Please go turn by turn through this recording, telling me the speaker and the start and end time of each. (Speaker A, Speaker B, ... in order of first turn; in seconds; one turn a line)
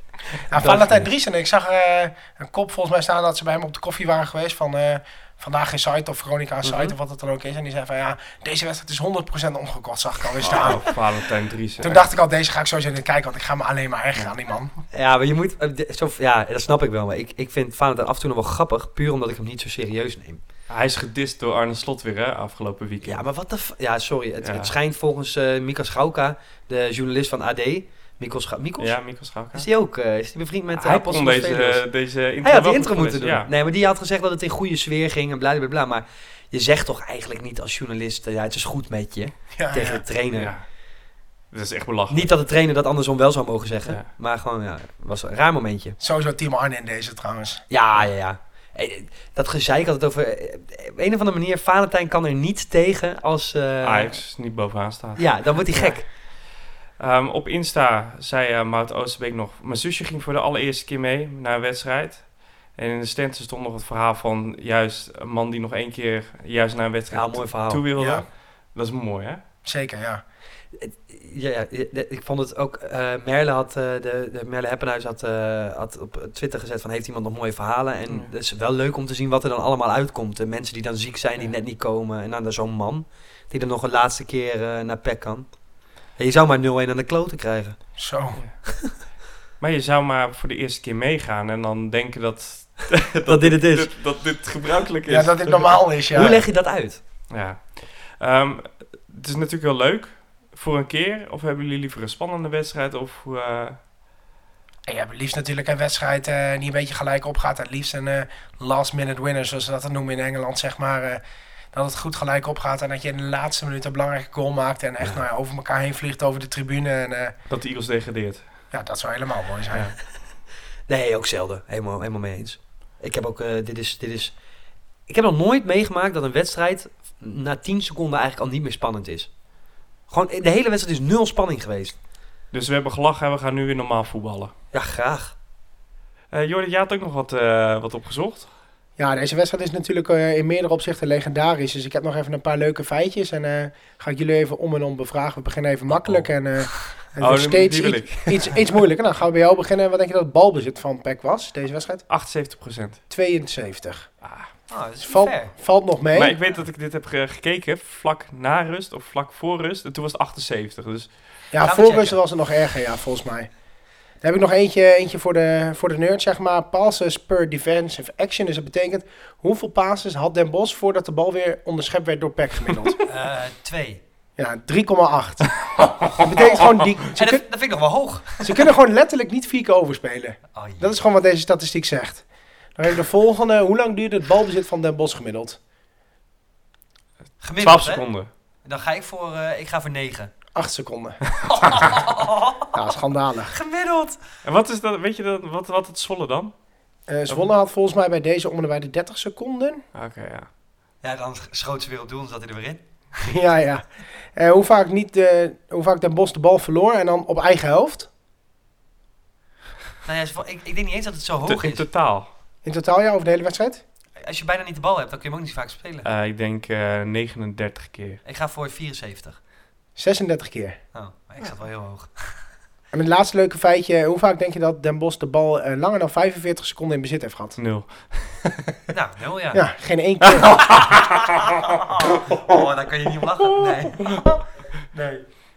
Speaker A: 0.5-10.9
Speaker B: 0.6-1.0
Speaker C: 10.4-12.0
Speaker A: 11.8-14.7
Speaker B: 14.9-20.4
Speaker C: 20.7-23.2
Speaker B: 23.0-31.9
Speaker C: 24.4-24.7
Speaker C: 28.8-29.7
Speaker C: 30.7-33.5
Speaker B: 32.4-40.5
Speaker A: 39.6-40.0
Speaker C: 40.3-40.7
Speaker C: 41.5-42.3
Speaker B: 42.1-46.0
Speaker A: 46.0-47.6
Speaker B: 47.7-54.2
Speaker C: 53.8-56.4
Speaker B: 55.2-56.1
Speaker C: 57.0-69.4
Speaker B: 67.1-67.8
Speaker A: 68.0-68.3
Speaker A: 69.7-70.2
Speaker B: 70.8-85.5
Speaker B: 86.2-87.8
Speaker A: 88.0-88.4
Speaker B: 88.7-88.9
Speaker C: 89.6-96.4
Speaker B: 93.3-93.9
Speaker A: 95.1-96.4
Speaker B: 96.1-97.0
Speaker C: 97.3-103.8
Speaker A: 104.9-111.2
Speaker A: 111.7-117.3
Speaker C: 117.5-118.5
Speaker A: 118.7-119.9
Speaker B: 120.9-124.3
Speaker B: 125.1-129.3
Speaker B: 130.1-132.0
Speaker C: 132.5-134.5
Speaker B: 134.7-135.3
Speaker C: 136.3-138.5
Speaker A: 139.0-152.1
Speaker C: 145.9-146.3
Speaker C: 147.2-148.6
Speaker C: 152.1-153.0
Speaker A: 153.1-154.1
Speaker C: 154.2-154.5
Speaker B: 154.7-155.5
Speaker A: 155.0-156.4
Speaker C: 156.2-161.2
Speaker A: 161.5-163.5
Speaker B: 161.6-162.2
Speaker A: 164.2-173.0
Speaker B: 173.1-174.0
Speaker A: 174.4-177.4
Speaker B: 176.2-178.7
Speaker A: 178.4-182.2
Speaker B: 180.6-181.0
Speaker A: 182.8-185.6
Speaker B: 187.4-188.1
Speaker C: 187.6-188.3
Speaker B: 188.7-190.3
Speaker A: 190.6-192.1
Speaker B: 191.5-192.7
Speaker A: 192.7-193.6
Speaker B: 193.5-194.2
Speaker C: 194.4-196.5
Speaker A: 197.1-199.8
Speaker C: 199.9-200.5
Speaker B: 201.0-202.8
Speaker A: 203.2-208.1
Speaker B: 210.0-211.9
Speaker C: 211.5-212.3
Speaker A: 212.6-213.8
Speaker B: 214.2-216.1
Speaker C: 216.0-218.2
Speaker B: 218.2-219.4
Speaker A: 220.0-220.8
Speaker B: 220.9-222.3
Speaker A: 222.9-227.6
Speaker C: 227.6-228.7
Speaker B: 228.9-229.7
Speaker A: 229.5-230.8
Speaker C: 230.4-230.8
Speaker B: 230.7-234.4
Speaker B: 234.9-235.2